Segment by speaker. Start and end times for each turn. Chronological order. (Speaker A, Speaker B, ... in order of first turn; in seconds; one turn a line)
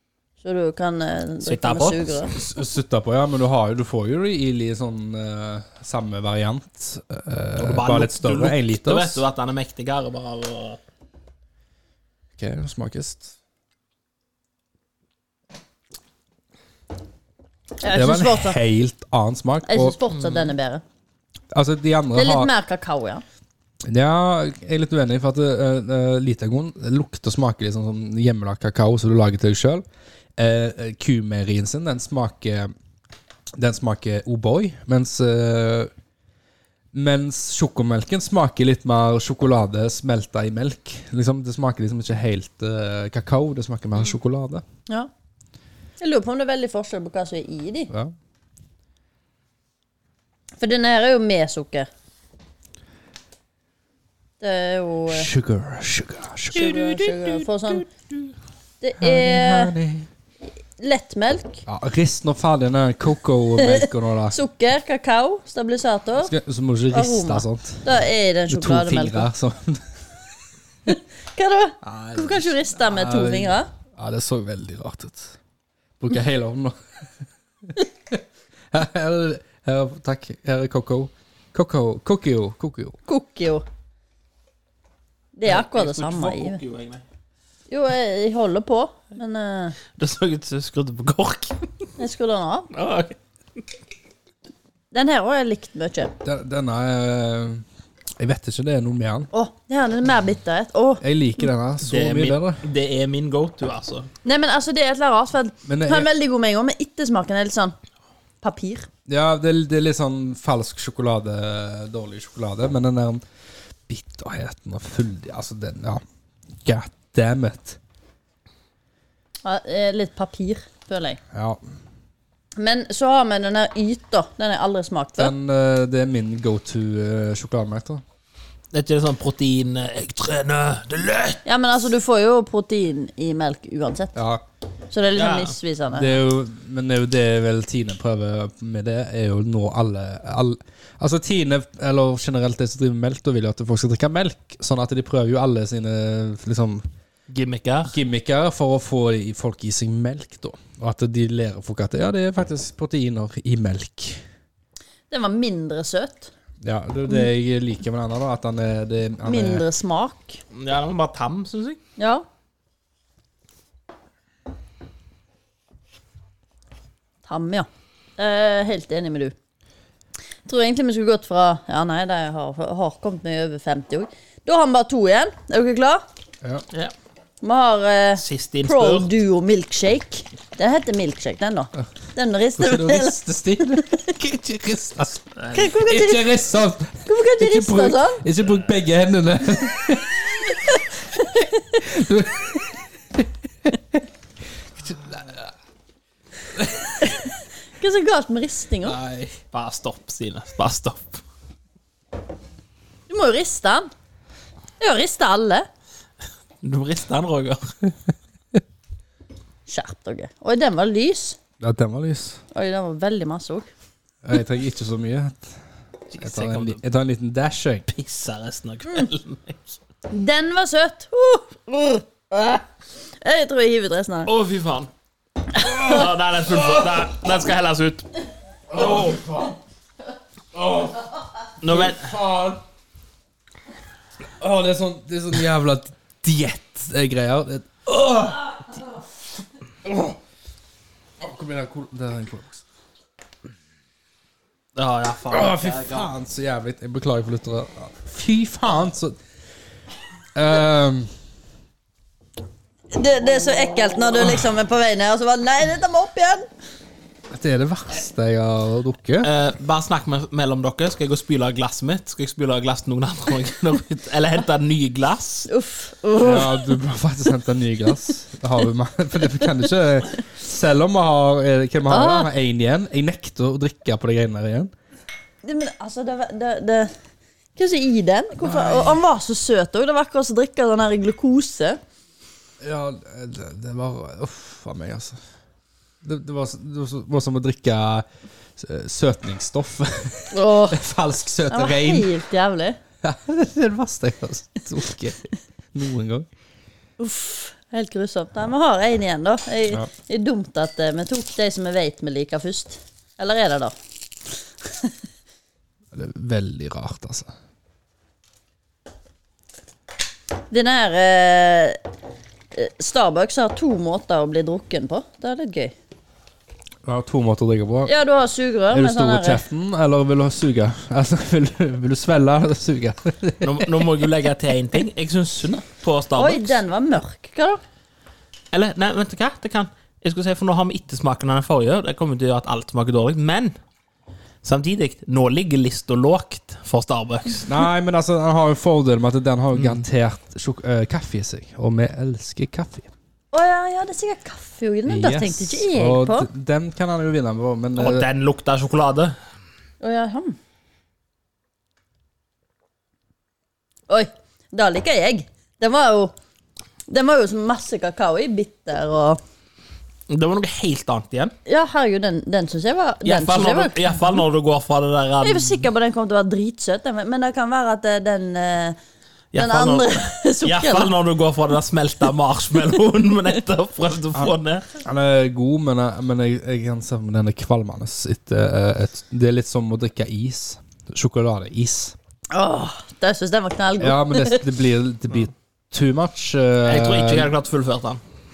Speaker A: 0.4-2.3
Speaker B: 1.4-2.2
Speaker C: 2.3-9.2
Speaker B: 7.6-10.8
Speaker C: 12.4-13.3
Speaker A: 17.8-18.6
Speaker C: 17.9-20.0
Speaker A: 19.6-20.8
Speaker B: 20.2-20.4
Speaker C: 21.5-22.5
Speaker A: 22.1-23.2
Speaker C: 23.9-29.8
Speaker C: 30.4-32.7
Speaker C: 33.6-35.9
Speaker C: 36.9-44.6
Speaker A: 46.0-47.9
Speaker A: 50.6-51.9
Speaker A: 54.4-55.3
Speaker C: 55.1-56.9
Speaker A: 56.5-57.9
Speaker B: 56.7-57.5
Speaker A: 58.8-59.7
Speaker C: 59.0-60.1
Speaker A: 60.8-61.6
Speaker C: 61.6-64.4
Speaker A: 63.6-66.3
Speaker C: 66.2-67.9
Speaker A: 66.9-69.3
Speaker C: 68.5-70.0
Speaker A: 70.9-73.7
Speaker C: 71.8-75.4
Speaker C: 76.0-77.1
Speaker C: 77.7-83.0
Speaker A: 83.1-83.6
Speaker A: 85.3-86.6
Speaker B: 85.4-87.0
Speaker A: 87.7-89.8
Speaker B: 90.0-91.6
Speaker A: 92.0-92.7
Speaker B: 92.7-93.2
Speaker A: 94.9-96.1
Speaker C: 96.2-97.6
Speaker C: 98.2-99.3
Speaker A: 99.3-101.0
Speaker C: 101.0-102.6
Speaker B: 101.8-104.1
Speaker A: 104.2-107.7
Speaker C: 105.7-106.1
Speaker A: 108.4-108.9
Speaker C: 109.1-113.2
Speaker C: 113.9-116.0
Speaker C: 116.6-117.8
Speaker A: 119.4-121.2
Speaker C: 121.3-121.6
Speaker A: 122.6-125.3
Speaker C: 125.2-128.0
Speaker B: 128.7-131.4
Speaker A: 131.4-134.2
Speaker C: 134.1-134.4
Speaker A: 134.9-136.2
Speaker B: 135.1-135.5
Speaker C: 135.9-146.8
Speaker B: 147.3-148.0
Speaker C: 147.9-154.2
Speaker A: 155.1-156.3
Speaker C: 156.6-159.7
Speaker A: 159.2-160.4
Speaker B: 160.5-161.8
Speaker A: 162.0-162.2
Speaker A: 167.3-169.3
Speaker A: 170.4-176.0
Speaker A: 177.4-183.2
Speaker B: 178.2-179.1
Speaker C: 182.6-190.8
Speaker B: 185.4-185.7
Speaker A: 185.5-186.2
Speaker A: 187.1-188.2
Speaker A: 190.7-191.8
Speaker C: 191.3-194.0
Speaker C: 194.7-195.5
Speaker C: 196.5-197.1
Speaker A: 197.0-199.0
Speaker C: 198.8-199.4
Speaker B: 199.5-201.2
Speaker A: 203.1-203.9
Speaker A: 204.8-205.7
Speaker B: 206.6-207.7
Speaker A: 209.7-211.4
Speaker C: 211.6-212.4
Speaker A: 212.5-213.7
Speaker C: 214.2-215.6
Speaker B: 216.1-216.8
Speaker C: 216.2-217.9
Speaker B: 217.9-219.6
Speaker A: 220.1-222.6
Speaker A: 223.2-224.3
Speaker B: 224.2-224.9
Speaker C: 225.6-226.9
Speaker B: 225.7-228.1
Speaker C: 228.7-229.6
Speaker C: 230.5-231.1
Speaker B: 231.6-232.1
Speaker C: 231.6-232.6
Speaker C: 234.4-238.7
Speaker C: 239.8-240.2
Speaker C: 241.2-242.6
Speaker B: 244.7-246.1
Speaker C: 245.3-249.2
Speaker C: 250.3-251.1
Speaker A: 252.9-256.5
Speaker C: 257.3-259.3
Speaker B: 259.2-265.5
Speaker A: 265.5-266.6
Speaker C: 266.2-274.7
Speaker A: 271.9-272.3
Speaker A: 275.4-276.9
Speaker A: 277.6-281.8
Speaker C: 278.4-279.0
Speaker C: 282.6-285.2
Speaker C: 286.0-288.1
Speaker C: 288.6-292.1
Speaker A: 290.3-290.8
Speaker A: 291.5-292.8
Speaker C: 293.0-296.3
Speaker A: 297.0-303.7
Speaker A: 304.6-304.9
Speaker C: 305.9-307.3
Speaker A: 310.5-311.8
Speaker A: 312.5-315.7
Speaker C: 316.8-317.9
Speaker A: 317.9-319.4
Speaker C: 318.7-323.9
Speaker B: 323.4-326.6
Speaker A: 326.1-327.6
Speaker B: 328.5-333.5
Speaker B: 334.4-337.6
Speaker C: 337.4-342.9
Speaker B: 339.6-339.8
Speaker A: 343.3-346.3
Speaker C: 344.9-348.1
Speaker B: 347.8-349.1
Speaker A: 349.8-350.4
Speaker A: 353.9-356.1
Speaker A: 356.9-359.2
Speaker B: 360.1-361.3
Speaker A: 361.4-363.8
Speaker B: 363.0-365.7
Speaker A: 365.2-368.8
Speaker B: 369.3-374.7
Speaker A: 369.4-370.9
Speaker C: 374.8-381.9
Speaker A: 382.3-384.4
Speaker C: 383.8-387.3
Speaker B: 386.6-388.0